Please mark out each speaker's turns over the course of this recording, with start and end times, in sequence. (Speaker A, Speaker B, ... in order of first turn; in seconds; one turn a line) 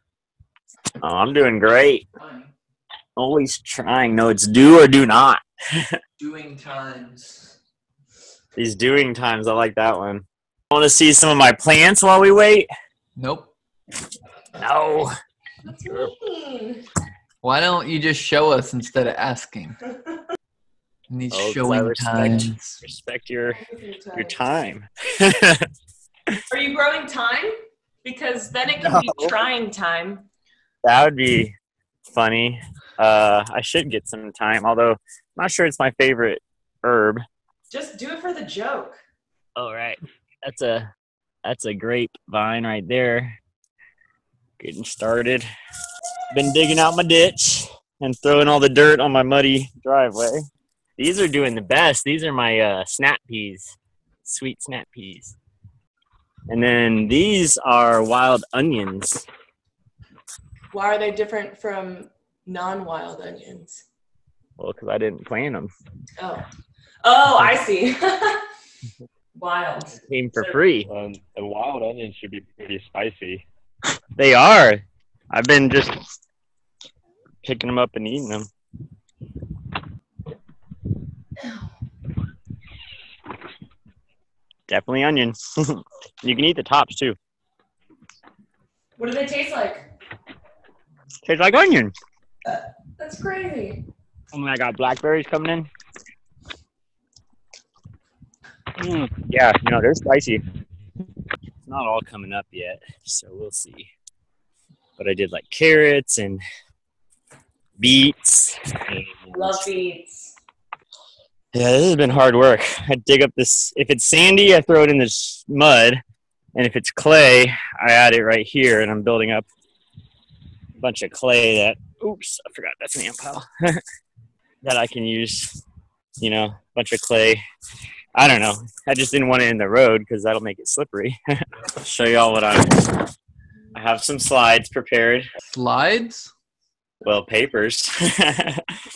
Speaker A: 1.0-2.0
Speaker B: 2.1-2.5
Speaker A: 3.1-6.0
Speaker B: 6.2-7.5
Speaker A: 8.6-12.7
Speaker B: 13.2-13.5
Speaker A: 14.6-15.1
Speaker C: 15.7-16.8
Speaker B: 17.4-19.8
Speaker B: 21.1-22.8
Speaker A: 21.3-23.6
Speaker C: 23.5-24.4
Speaker A: 24.1-25.7
Speaker C: 26.5-30.2
Speaker A: 28.8-29.3
Speaker A: 30.8-31.5
Speaker A: 32.1-37.2
Speaker C: 37.7-39.0
Speaker A: 39.5-40.9
Speaker A: 41.4-43.4
Speaker A: 44.6-45.5
Speaker A: 46.3-50.5
Speaker A: 51.0-55.4
Speaker A: 56.5-59.2
Speaker C: 60.7-63.8
Speaker A: 64.6-65.7
Speaker C: 66.2-66.4
Speaker C: 67.0-68.4
Speaker C: 69.3-70.5
Speaker A: 69.9-70.9
Speaker D: 70.9-73.4
Speaker A: 74.2-76.0
Speaker A: 77.4-78.5
Speaker C: 81.4-81.7
Speaker A: 84.7-87.2
Speaker C: 89.0-89.8
Speaker A: 91.2-91.9
Speaker C: 92.5-93.8
Speaker A: 94.3-95.7
Speaker A: 98.8-100.4
Speaker A: 101.6-103.9
Speaker A: 105.0-106.4
Speaker A: 107.8-109.6
Speaker C: 109.3-110.3
Speaker A: 111.5-116.0
Speaker A: 116.5-119.5
Speaker A: 120.8-123.8
Speaker A: 124.6-125.6
Speaker A: 126.2-127.4
Speaker A: 128.1-133.1
Speaker A: 133.7-135.3
Speaker B: 135.5-136.3
Speaker A: 137.0-138.6